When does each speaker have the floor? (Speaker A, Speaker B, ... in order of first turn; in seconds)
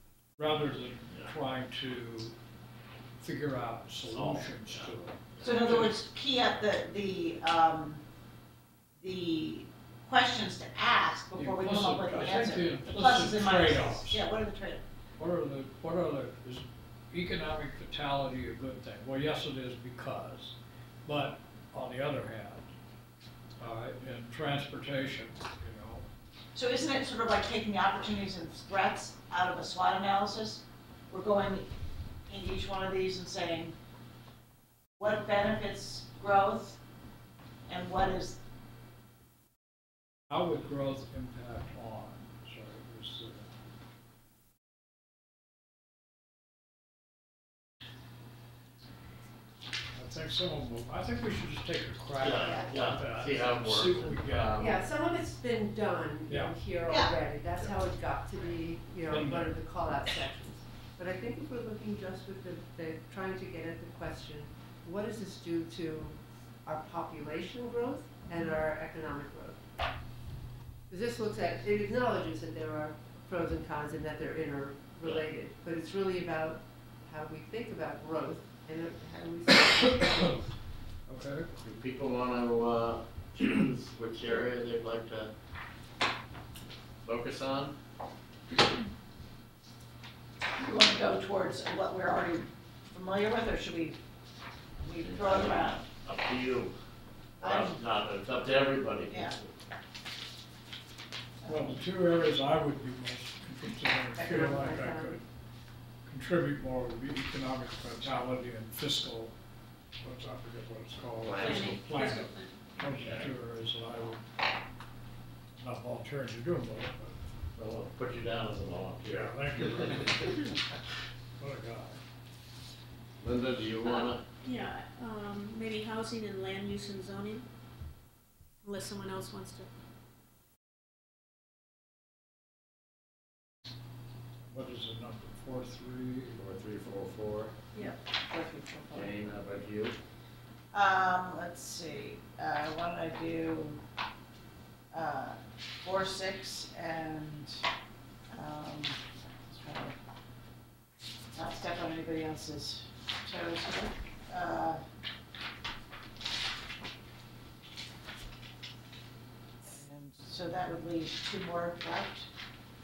Speaker A: 0.4-2.4, 3.2-5.9, 11.3-14.2, 15.2-22.7, 23.6-26.1, 40.3-43.5, 49.9-54.6, 56.3-56.5, 59.1-59.6, 81.1-81.5, 101.5-105.2, 106.1-109.3, 110.0-114.2, 115.6-117.2, 119.1-120.5, 121.4-122.0, 134.5-136.4
Speaker B: 4.0-5.5, 52.2-54.7, 81.6-85.3, 87.0-87.8, 95.0-96.7, 97.4-99.5, 111.2-111.8, 112.8-113.3, 117.6-119.3, 123.2-124.2, 136.4-137.5, 138.9-140.0
Speaker C: 5.4-8.0, 9.0-14.8, 26.5-31.7, 32.3-33.8, 35.0-36.8, 37.7-38.4, 56.9-57.1, 90.6-94.0, 94.8-95.9, 97.4-97.8, 99.1-99.3, 140.7-143.8, 144.9-147.6, 148.3-149.9, 151.3-154.8, 159.6-162.3
Speaker D: 54.6-69.6, 70.9-80.5, 104.2-105.2, 137.8-139.1
Speaker E: 111.4-112.6, 123.8-127.5, 128.6-129.7